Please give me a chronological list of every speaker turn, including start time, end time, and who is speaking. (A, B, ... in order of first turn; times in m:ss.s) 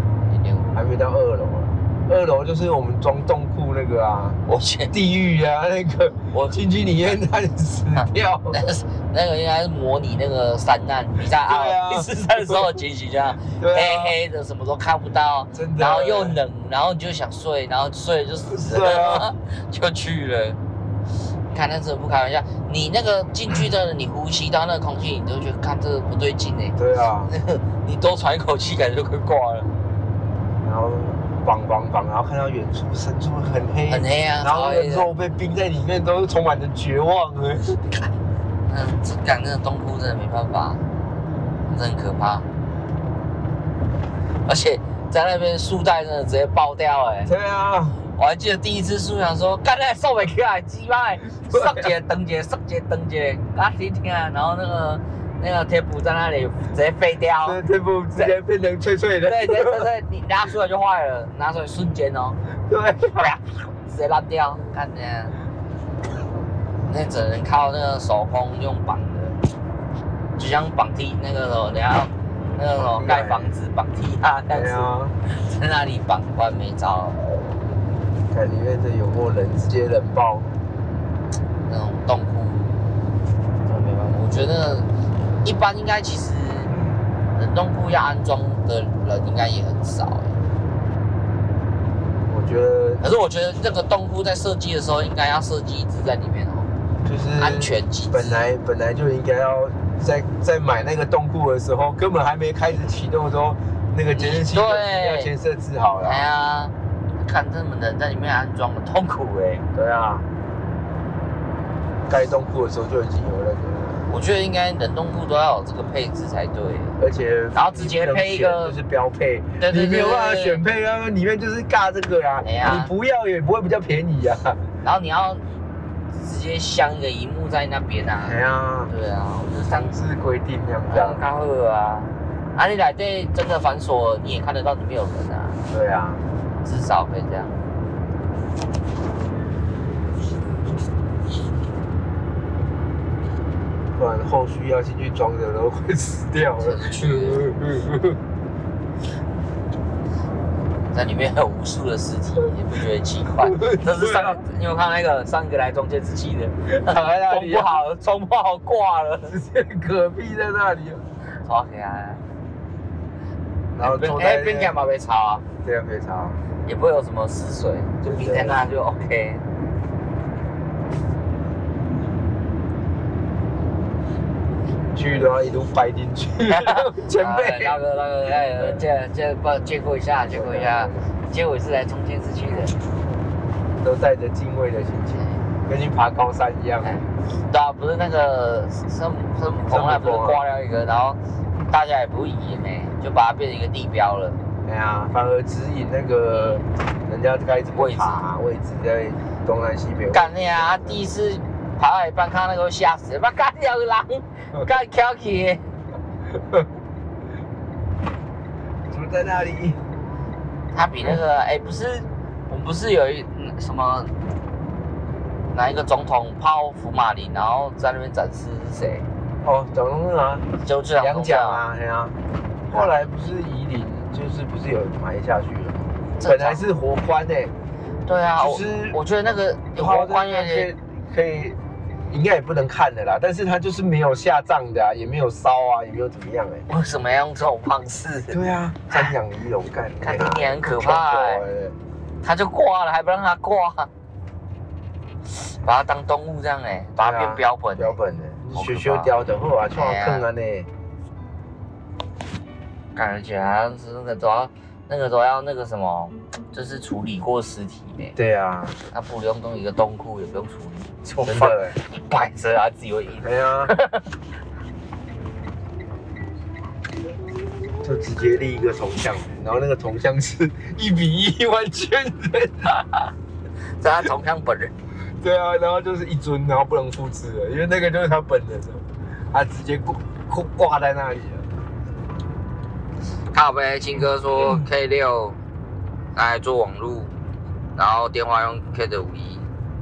0:00.3-0:00.7 A
0:00.7-0:04.4 B
0:04.4-0:04.9 A
0:04.9-0:08.6 B
0:06.3-0:07.2 A
0:08.5-0:20.6 A
0:11.2-0:12.8 B
0:13.4-0:14.1 B
0:15.5-0:16.4 B
0:18.4-0:19.3 B
0:21.5-0:26.8 A
0:26.8-0:27.3 B
0:27.3-0:29.7 A
0:30.6-0:38.0 B
0:33.9-0:35.1 A
0:38.7-0:40.8 A
0:41.7-0:42.5 A
0:44.4-0:47.3 A
0:47.2-0:48.0 B
0:48.2-0:57.6 A
0:51.5-0:51.9 B
0:57.4-0:59.9 B
0:59.2-1:02.4 A
1:02.7-1:03.3 B
1:03.2-1:05.3 A
1:06.8-1:09.4 A
1:10.4-1:17.2 A
1:12.7-1:13.5 B
1:14.5-1:15.2 B
1:18.3-1:20.5 B
1:21.7-1:22.8 A
1:23.6-1:24.9 A
1:25.4-1:26.8 A
1:27.3-1:30.4 A
1:32.3-1:33.0 B
1:33.0-1:36.7 A
1:37.0-1:46.2 B
1:37.4-1:38.4 A
1:44.1-1:45.3 A
1:46.0-1:49.6 A
1:49.7-1:50.2 B
1:52.1-1:54.1 B
1:54.1-1:57.0 A
1:57.0-2:04.6 B
1:57.5-1:58.7 A
1:59.6-2:00.6 A
2:02.4-2:02.9 A
2:04.8-2:05.4 A
2:06.1-2:08.4 A
2:08.2-2:08.9 B
2:08.9-2:10.0 A
2:09.6-2:11.2 B
2:10.9-2:15.6 A
2:15.7-2:16.2 B
2:16.6-2:17.6 A
2:23.9-2:28.2 B
2:26.6-2:27.4 A
2:30.9-2:39.3 A
2:33.4-2:34.4 B
2:36.7-2:37.7 B
2:39.3-2:41.0 B
2:41.4-2:42.2 A
2:43.7-2:44.7 B
2:43.8-2:45.4 A
2:45.6-2:46.4 B
2:46.6-2:49.4 A
2:48.0-2:48.6 B
2:54.9-2:58.8 B
2:56.5-3:02.8 A
3:00.2-3:01.0 B
3:03.8-3:07.0 B
3:05.1-3:05.4 A
3:06.8-3:14.4 A
3:09.7-3:10.4 B
3:14.6-3:21.0 B
3:17.7-3:18.3 A
3:20.1-3:25.6 A
3:28.9-3:29.8 B
3:30.7-3:34.1 A
3:35.5-3:39.0 A
3:39.4-3:42.2 B
3:40.6-3:41.6 A
3:42.7-3:42.9 A
3:42.7-3:47.5 B
3:46.2-3:46.6 A
3:48.0-3:50.7 A
3:48.4-3:49.0 B
3:49.8-3:51.6 B
3:52.1-3:56.6 B
3:56.7-3:58.4 A
3:58.3-4:01.8 B
4:00.0-4:01.4 A
4:02.2-4:03.9 A
4:05.3-4:08.0 A
4:07.0-4:10.7 B
4:08.5-4:09.1 A
4:09.7-4:10.2 A
4:12.9-4:18.2 A
4:18.2-4:18.8 B
4:18.9-4:24.1 A
4:21.2-4:21.8 B
4:23.2-4:23.7 B
4:27.8-4:33.0 B
4:33.8-4:34.7 A
4:35.2-4:41.4 B
4:43.3-4:45.4 A
4:46.1-4:47.1 A
4:47.8-4:49.4 A